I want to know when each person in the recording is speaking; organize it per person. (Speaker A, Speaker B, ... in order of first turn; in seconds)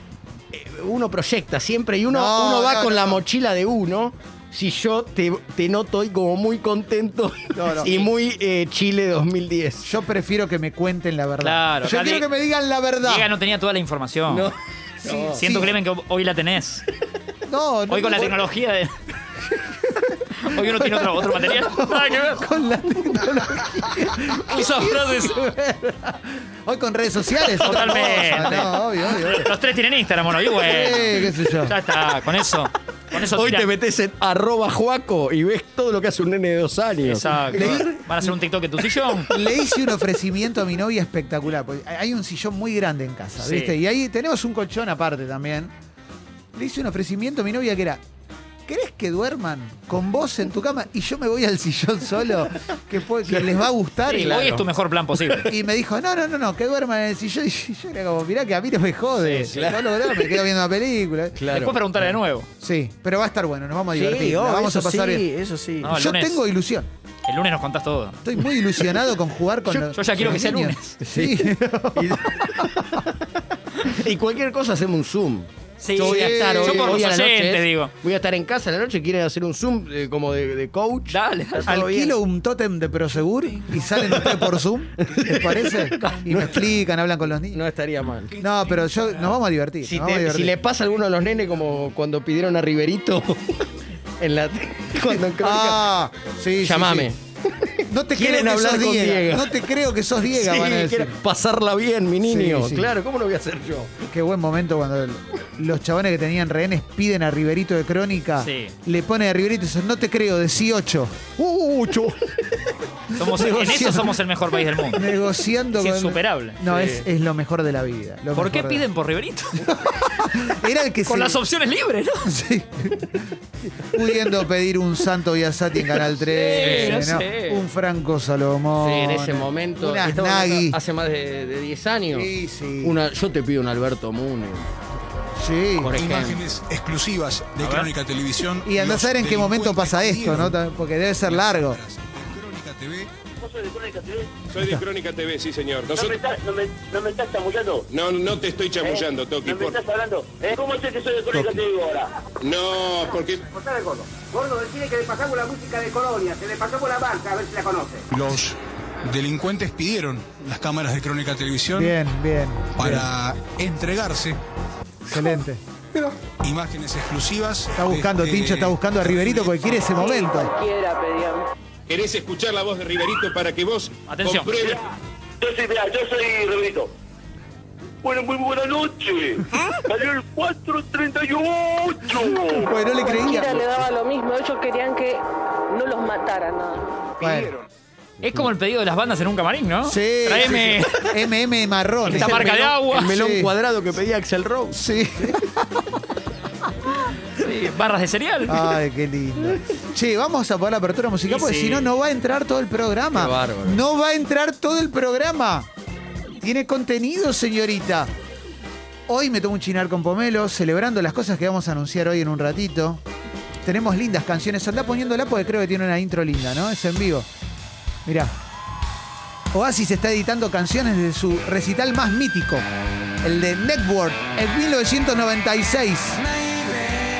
Speaker A: 0.5-9.9, 14.3-15.4, 33.1-38.0, 53.3-55.5, 59.5-60.5, 61.4-61.8, 63.9-65.9, 69.7-70.4, 71.0-82.2, 84.1-84.5, 85.0-86.8, 87.5-88.4, 89.9-93.7, 94.2-95.9, 96.6-99.6, 100.3-104.1, 116.7-117.0, 126.6-127.2, 128.8-132.3, 132.8-134.7, 135.8-136.4, 192.1-194.8, 203.1-203.8
Speaker B: 2.1-3.2, 7.5-8.1, 9.8-13.3, 15.0-15.8, 17.5-18.4, 20.0-29.5, 30.6-31.8, 37.5-38.3, 39.3-45.7, 46.5-48.0, 48.7-54.5, 55.5-65.2, 65.9-66.9, 68.2-72.7, 75.9-77.0, 81.7-87.6, 88.4-90.6, 95.1-97.1, 97.9-101.2, 102.2-102.9, 104.1-112.3, 113.1-114.2, 114.8-118.8, 119.6-121.4, 122.2-130.8, 132.1-133.0, 135.4-136.0, 138.7-141.8, 161.7-163.1, 165.1-165.6, 167.8-170.5, 182.6-183.6, 187.2-187.5, 189.8-193.5, 194.7-196.0, 198.5-205.7, 206.4-208.1, 209.1-213.0, 213.6-217.3, 218.1-218.3, 219.5-222.7, 223.2-226.2
Speaker C: 11.4-12.3, 13.0-14.5, 15.4-16.8, 17.9-18.9, 20.4-22.5, 24.3-25.3, 27.6-33.7, 37.1-39.3, 43.4-43.8, 54.1-55.5, 59.2-59.5, 61.5-62.5, 65.8-66.4, 67.3-68.2, 69.9-71.0, 75.8-77.9, 81.1-81.8, 108.4-108.7, 113.1-115.1, 115.7-116.6, 118.3-119.7, 121.1-122.3, 126.2-127.6, 137.6-137.9, 174.1-174.8, 188.2-191.1, 192.1-193.1, 197.4-198.7, 201.3-201.9
Speaker D: 135.9-140.6, 141.3-143.1, 158.1-162.0, 162.8-164.4, 166.0-169.9
Speaker E: 143.4-144.4, 145.9-147.9, 148.8-152.3, 153.4-158.1, 174.6-174.9, 175.4-176.9, 178.0-182.7, 187.2-187.5
Speaker F: 144.5-146.3, 147.9-149.8, 152.4-153.5, 171.9-174.8
Speaker G: 169.9-171.5, 182.8-187.0